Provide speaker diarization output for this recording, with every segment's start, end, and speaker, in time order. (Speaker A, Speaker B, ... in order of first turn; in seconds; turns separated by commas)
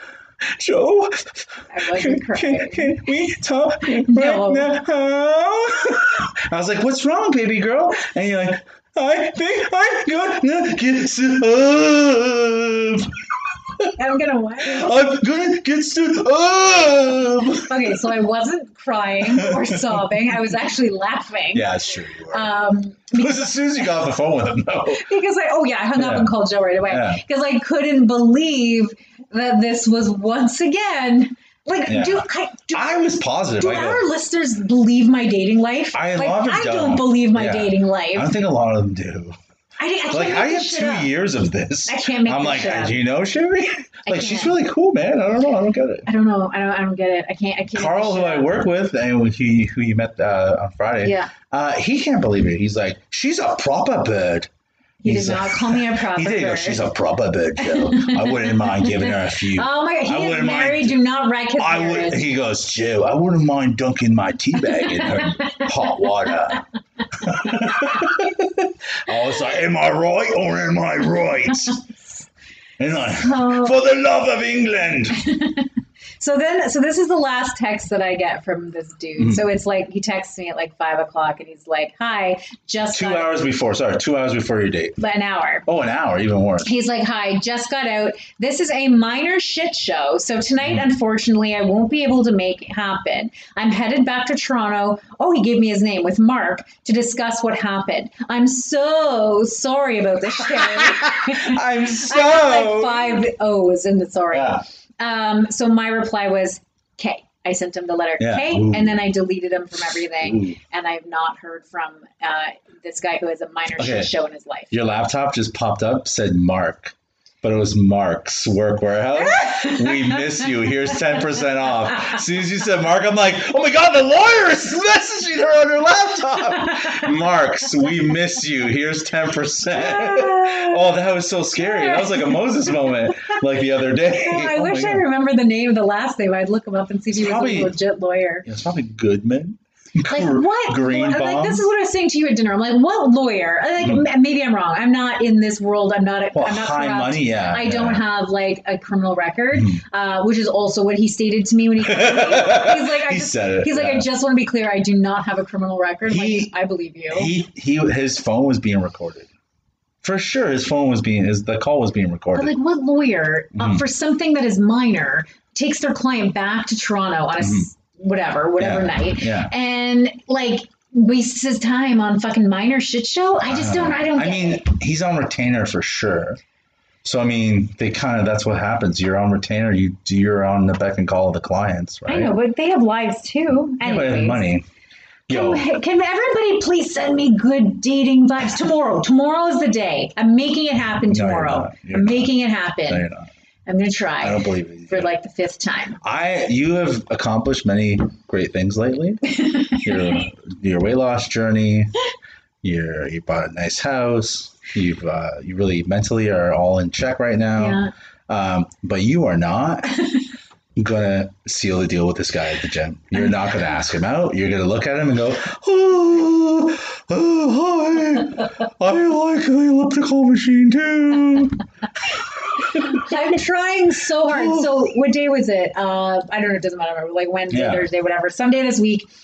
Speaker A: 0.4-13.2, Speaker B: 1.7-3.0, Speaker B: 4.0-4.7, Speaker B: 13.9-14.9, Speaker A: 14.6-18.1, Speaker B: 17.7-21.7, Speaker A: 19.2-19.8, Speaker A: 21.5-22.5, Speaker B: 22.3-23.6, Speaker A: 23.1-25.0, Speaker B: 24.9-38.3, Speaker A: 26.0-26.3, Speaker A: 26.9-27.2, Speaker A: 31.9-34.0, Speaker A: 35.9-39.4, Speaker B: 39.8-41.1, Speaker A: 40.1-46.0, Speaker B: 41.9-43.0, Speaker B: 44.0-44.5, Speaker B: 46.0-48.5, Speaker A: 47.7-54.5, Speaker B: 51.0-51.3, Speaker B: 55.0-56.9, Speaker A: 55.0-61.0, Speaker B: 57.6-62.2, Speaker A: 61.6-71.8, Speaker B: 64.8-65.7, Speaker A: 72.8-75.2, Speaker B: 72.9-73.8, Speaker B: 75.1-83.4, Speaker A: 79.2-79.4, Speaker A: 82.9-85.0, Speaker B: 85.0-85.7, Speaker A: 85.7-86.7, Speaker B: 86.6-114.7, Speaker A: 100.4-103.2, Speaker A: 104.3-104.6, Speaker A: 108.2-109.0, Speaker A: 110.2-110.6, Speaker A: 113.8-114.1, Speaker A: 114.7-135.0, Speaker B: 119.2-120.2, Speaker B: 129.7-130.8, Speaker B: 131.6-133.3, Speaker B: 134.1-138.4, Speaker A: 137.1-137.7, Speaker A: 138.4-141.6, Speaker B: 140.1-157.3, Speaker A: 146.3-148.0, Speaker A: 149.5-149.8, Speaker A: 151.8-154.1, Speaker A: 156.1-156.5, Speaker A: 157.1-159.3, Speaker A: 160.0-162.5, Speaker B: 162.3-174.7, Speaker A: 163.5-163.8, Speaker A: 167.4-167.7, Speaker A: 168.6-169.5, Speaker A: 173.4-176.4, Speaker A: 177.0-182.3, Speaker B: 182.1-184.4, Speaker A: 183.8-184.6, Speaker A: 185.3-185.7, Speaker B: 185.3-193.1, Speaker A: 191.1-193.3, Speaker B: 193.7-196.0, Speaker A: 194.2-195.1, Speaker A: 196.0-201.9, Speaker B: 199.4-200.2, Speaker A: 202.6-209.9, Speaker B: 207.6-207.9, Speaker A: 210.8-221.6, Speaker A: 222.1-223.0, Speaker B: 222.7-229.1, Speaker A: 224.2-224.7, Speaker A: 227.5-227.8